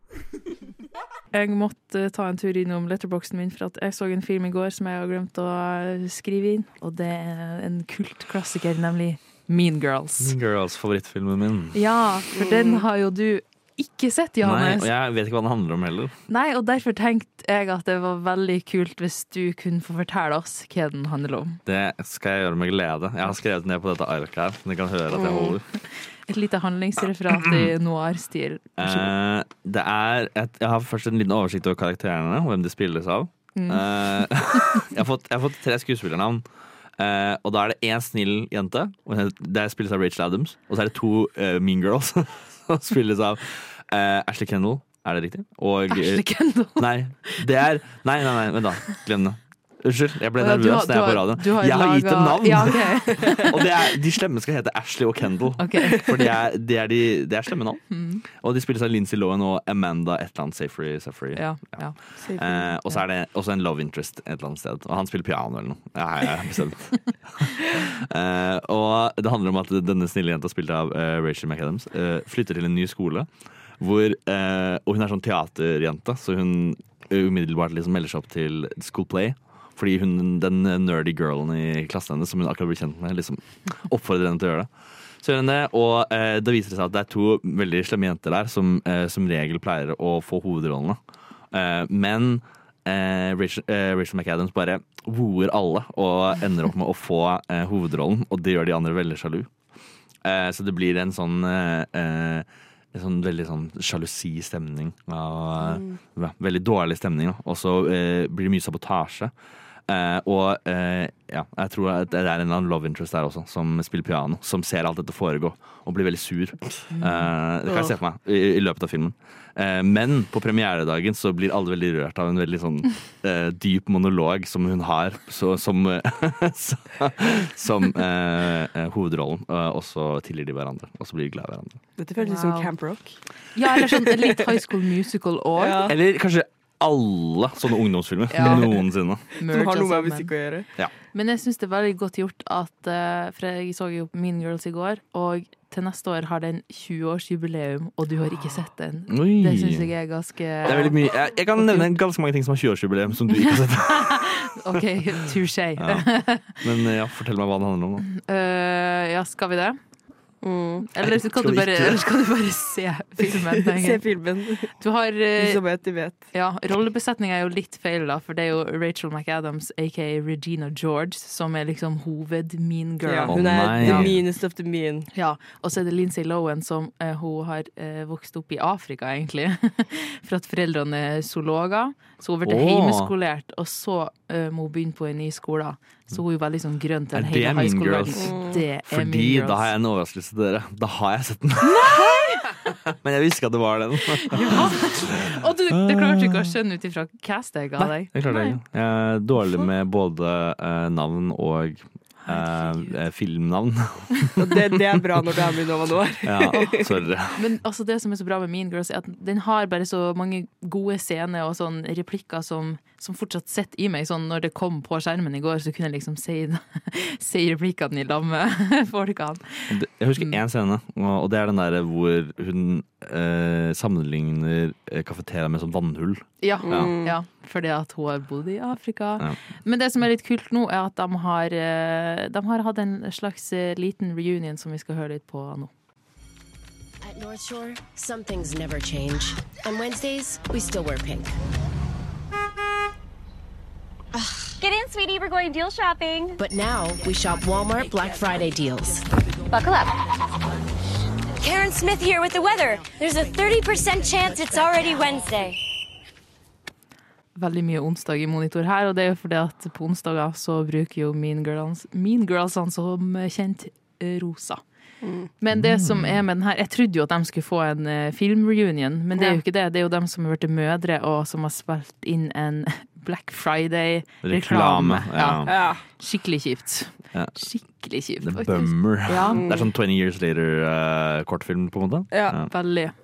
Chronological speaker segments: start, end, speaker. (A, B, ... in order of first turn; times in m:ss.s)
0:01.3-0:10.4 A
0:10.2-0:11.8 B
0:11.7-0:14.9 A
0:12.4-0:12.8 C
0:14.4-0:16.1 B
0:16.3-0:21.6 A
0:21.6-0:25.6 B
0:25.2-0:25.5 C
0:25.8-0:29.1 A
0:28.8-0:36.4 B
0:33.5-0:34.2 A
0:37.0-1:31.0 B
0:45.9-0:47.4 A
0:50.4-0:53.6 A
0:55.6-0:56.1 A
0:57.9-0:58.2 A
1:01.3-1:02.3 A
1:02.2-1:02.7 C
1:31.5-1:39.5 B
1:40.2-1:49.3 B
1:49.9-2:11.8 B
1:56.9-1:57.3 A
1:57.7-1:57.9 C
2:12.0-2:13.2 C
2:12.2-2:12.7 A
2:13.5-2:15.9 A
2:15.6-2:15.9 C
2:15.8-2:19.2 B
2:18.3-2:20.3 A
2:18.4-2:18.7 C
2:19.4-2:20.7 C
2:21.1-2:31.0 A
2:29.1-2:29.9 B
2:30.6-2:34.8 B
2:31.5-2:31.9 A
2:33.4-2:36.6 A
2:35.8-2:38.0 B
2:38.1-2:39.8 A
2:40.4-2:40.8 C
2:40.9-2:44.2 A
2:41.0-2:42.0 B
2:43.7-2:46.3 C
2:44.8-2:54.1 A
2:53.0-2:55.1 C
2:53.3-2:54.1 B
2:55.1-3:09.7 A
3:02.4-3:03.1 B
3:07.1-3:12.0 B
3:08.2-3:08.6 C
3:11.6-3:12.6 A
3:12.5-3:16.5 B
3:14.2-3:18.6 A
3:17.8-3:24.8 B
3:19.4-3:19.6 A
3:22.2-3:23.0 A
3:24.4-3:26.9 C
3:26.2-3:27.4 B
3:27.3-3:40.4 A
3:39.7-3:47.0 B
3:46.4-3:55.7 A
3:46.6-3:47.2 C
3:57.0-4:01.3 D
4:04.6-4:06.4 E
4:06.4-4:09.0 D
4:09.5-4:09.9 E
4:11.4-4:15.6 E
4:17.4-4:24.6 A
4:25.0-4:25.3 C
4:25.4-4:39.4 A
4:25.5-4:26.2 B
4:29.1-4:29.4 C
4:34.2-4:35.6 B
4:35.5-4:35.8 C
4:37.1-4:37.4 B
4:38.2-4:42.5 B
4:39.3-4:39.7 C
4:42.1-4:42.4 C
4:42.5-4:43.0 A